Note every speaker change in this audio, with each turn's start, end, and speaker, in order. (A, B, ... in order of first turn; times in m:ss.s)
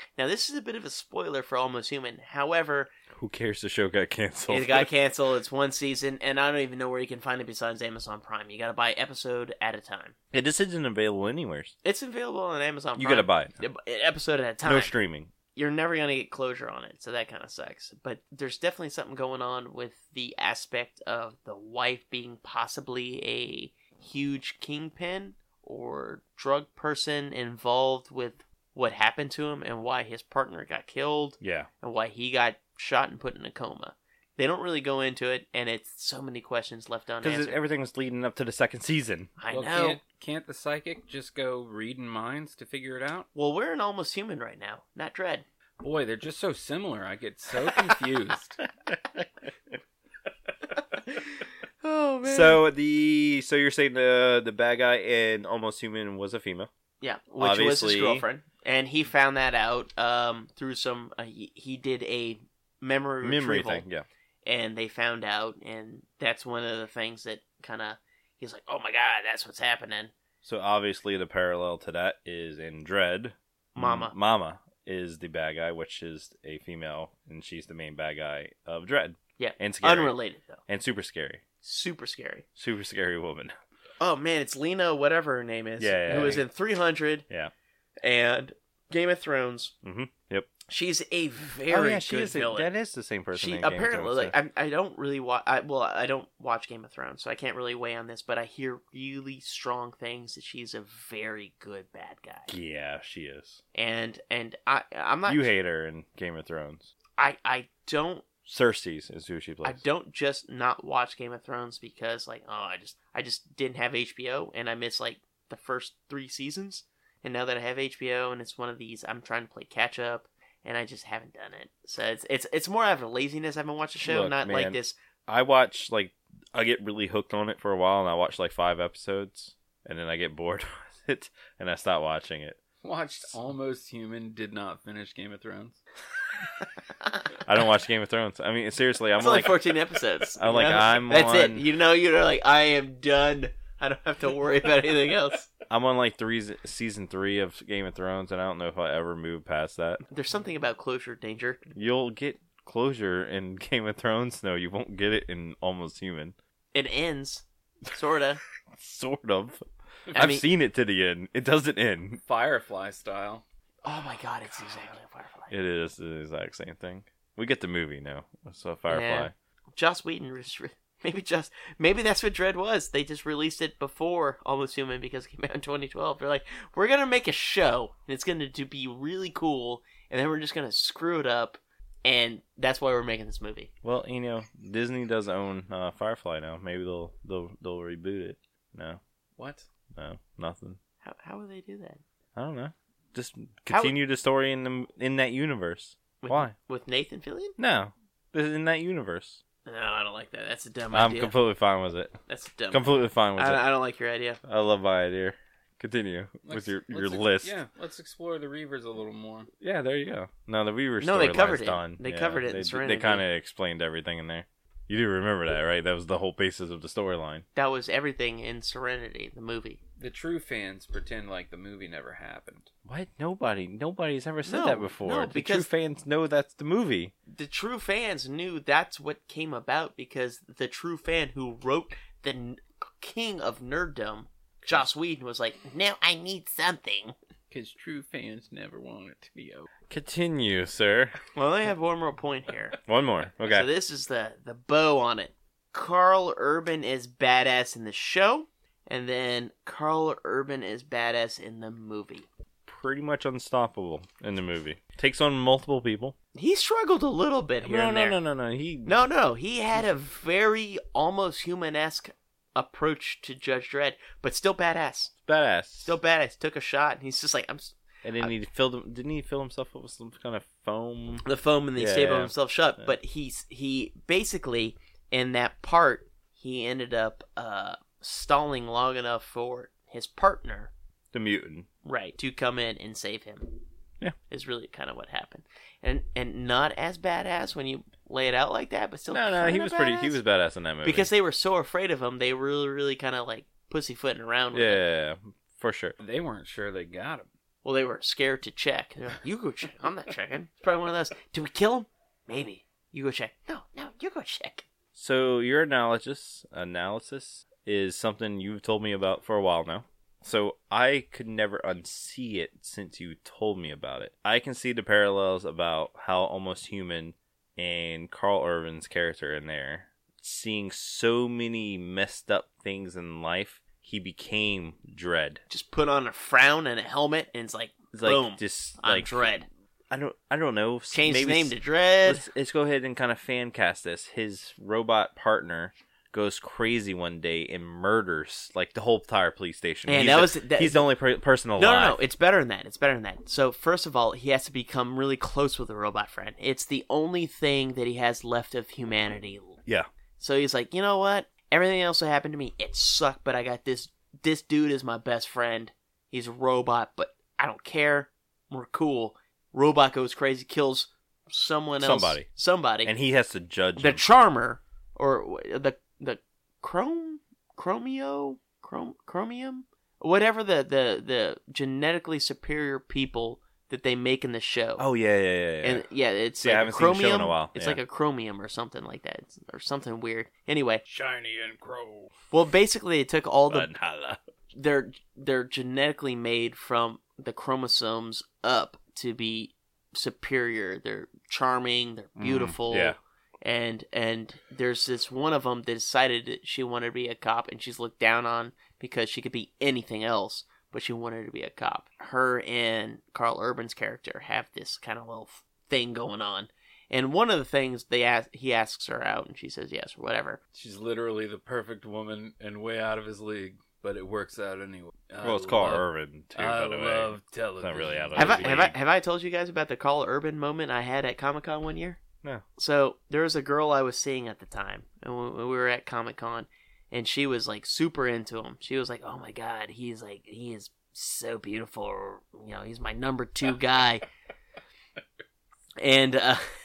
0:00.2-0:02.9 A
0:03.1-0:04.9 B
0:04.5-0:10.1 A
0:10.3-0:11.7 B
0:11.8-0:14.9 A
0:13.0-0:13.5 B
0:14.6-0:15.3 B
0:15.5-0:37.6 A
0:31.4-0:31.7 B
0:37.2-0:39.3 B
0:39.4-0:40.0 A
0:39.5-0:43.3 C
0:43.3-0:45.4 A
0:45.8-0:48.6 C
0:51.8-0:52.6 A
0:52.2-0:56.7 B
0:57.0-1:03.8 A
0:57.4-0:58.2 B
1:03.2-1:04.0 B
1:04.4-1:10.1 A
1:10.4-1:20.2 B
1:13.7-1:14.1 A
1:19.4-1:20.6 A
1:20.7-1:21.4 B
1:21.6-1:22.4 A
1:22.6-1:23.5 B
1:24.0-1:27.2 A
1:25.8-1:26.4 B
1:28.0-1:29.7 A
1:29.8-1:30.5 B
1:30.7-1:32.7 A
1:31.7-1:34.3 B
1:33.3-1:42.5 A
1:42.5-1:43.6 B
1:43.7-1:45.5 A
1:45.3-1:46.9 B
1:47.2-1:48.2 A
1:48.4-1:49.8 B
1:49.6-2:05.0 A
2:04.0-2:12.6 B
2:12.8-2:15.8 C
2:17.4-2:19.7 B
2:19.2-2:25.5 A
2:20.3-2:21.7 B
2:25.7-2:30.0 B
2:30.1-2:31.6 A
2:31.7-2:36.3 B
2:36.7-2:38.4 A
2:38.7-2:42.2 B
2:40.1-2:40.4 A
2:42.2-2:43.4 C
2:43.8-2:45.5 A
2:45.5-2:49.3 B
2:48.9-3:03.7 A
3:03.8-3:09.0 B
3:09.4-3:09.7 C
3:10.0-3:10.8 B
3:11.0-3:12.0 A
3:12.4-3:16.5 B
3:13.7-3:13.9 A
3:16.2-3:17.5 A
3:17.6-3:19.4 B
3:19.6-3:21.4 A
3:20.9-3:22.2 B
3:22.3-3:24.4 A
3:22.7-3:23.6 B
3:24.4-3:27.6 B
3:26.4-3:29.5 C
3:29.6-3:37.4 B
3:31.0-3:33.2 A
3:37.5-3:39.8 A
3:40.0-3:42.7 C
3:42.8-3:47.1 B
3:44.4-3:45.7 A
3:47.3-3:57.1 A
3:57.5-3:59.7 C
3:59.9-4:01.2 B
4:01.3-4:02.8 A
4:02.8-4:03.7 B
4:03.4-4:12.3 A
4:12.6-4:16.1 B
4:16.3-4:18.2 A
4:17.6-4:19.0 B
4:18.8-4:25.1 A
4:25.2-4:25.9 B
4:25.8-4:28.3 A
4:28.0-4:32.9 B
4:31.2-4:40.7 A
4:41.1-4:41.7 B
4:41.8-4:43.5 A
4:44.3-4:50.2 A
4:49.1-4:51.1 B
4:50.8-4:54.8 A
4:54.5-4:56.0 B
4:56.0-4:57.3 C
4:57.6-5:04.6 A
5:04.9-5:25.4 B
5:25.5-5:29.4 A
5:27.9-5:29.4 B
5:29.9-5:42.0 B
5:30.9-5:32.2 A
5:39.9-5:40.9 A
5:41.6-5:49.6 A
5:50.2-6:02.9 A
6:01.8-6:02.3 B
6:02.8-6:04.0 B
6:03.8-6:14.8 A
6:14.8-6:15.8 B
6:15.6-6:20.8 A
6:16.4-6:17.8 B
6:20.9-6:22.1 C
6:22.3-6:23.7 A
6:23.5-6:24.2 B
6:24.5-6:50.4 A
6:32.2-6:33.0 B
6:50.5-6:58.7 C
6:55.2-6:58.7 B
6:58.2-7:02.0 A
7:02.6-7:14.0 A
7:15.8-7:16.4 A